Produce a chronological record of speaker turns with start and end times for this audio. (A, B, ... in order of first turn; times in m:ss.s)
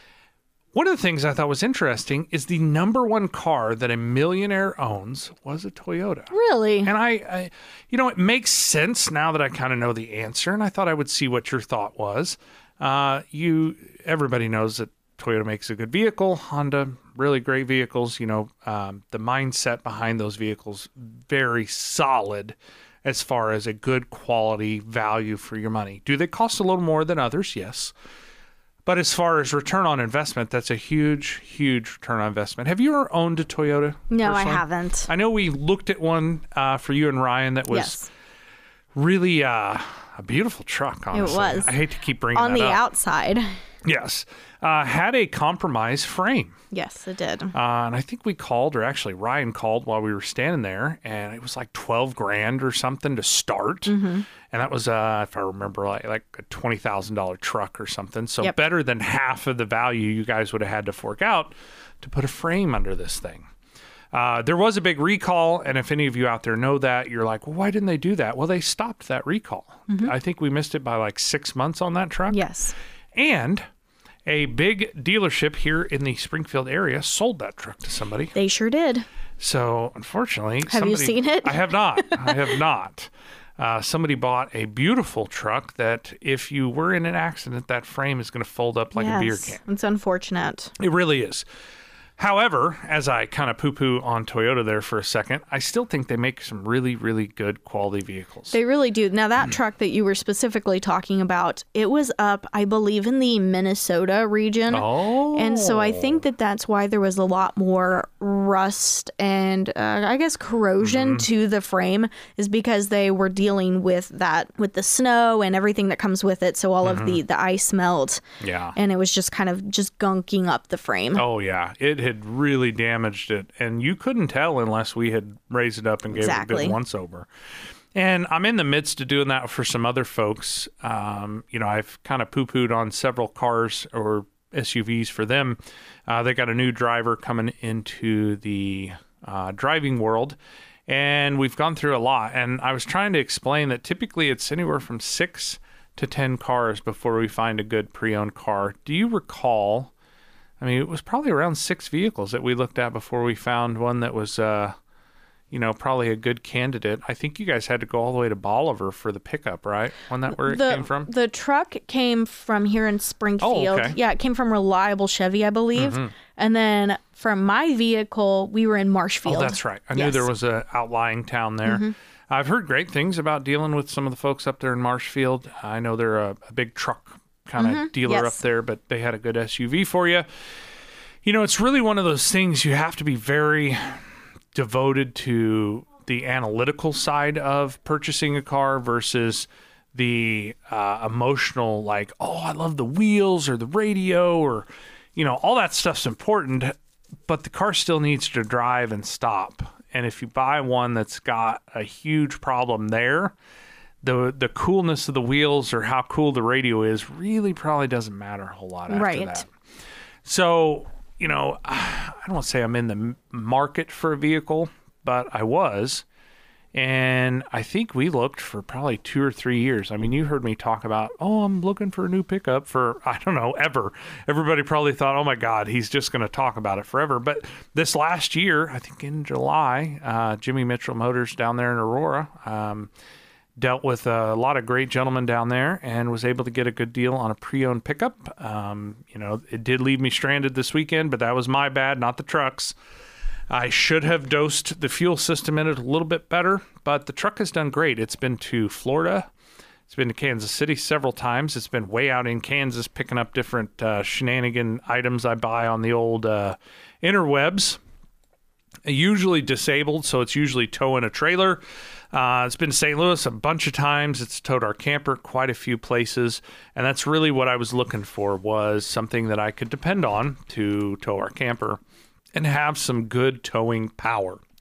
0:00.7-0:06.3 A
0:06.3-0:06.9 B
0:06.8-0:27.9 A
0:28.9-0:38.1 A
0:34.1-0:35.1 B
0:37.7-0:38.1 B
0:38.9-0:42.8 A
0:41.1-0:41.7 B
0:42.3-0:43.5 B
0:43.8-0:46.6 A
0:46.7-0:47.5 B
0:47.5-1:03.5 A
0:53.9-0:54.2 B
1:04.1-1:12.4 A
1:12.3-1:12.7 B
1:13.1-1:13.6 A
1:14.2-1:18.3 A
1:18.4-1:19.0 B
1:19.4-1:29.6 A
1:20.7-1:22.6 B
1:28.9-1:30.7 B
1:30.8-1:31.4 A
1:32.2-1:38.6 A
1:38.5-1:58.2 B
1:44.7-1:46.2 A
1:50.8-1:51.3 A
1:56.8-1:57.2 A
1:58.4-1:58.7 A
1:58.8-2:01.2 B
2:01.2-2:07.3 A
2:06.1-2:06.8 B
2:07.9-2:29.9 A
2:30.6-2:34.8 A
2:35.5-2:41.1 A
2:40.3-2:50.3 B
2:43.4-2:44.0 A
2:45.8-2:46.1 A
2:49.3-3:00.3 A
2:51.7-2:51.9 B
2:57.6-2:58.4 B
3:01.2-3:04.0 A
3:04.5-3:16.7 A
3:17.3-3:23.3 A
3:24.0-3:29.5 A
3:28.9-3:29.4 B
3:30.2-3:36.0 A
3:36.7-3:52.9 A
3:53.6-4:02.8 A
4:03.5-4:09.3 A
4:09.9-4:17.8 A
4:18.8-4:31.8 A
4:32.3-4:34.4 A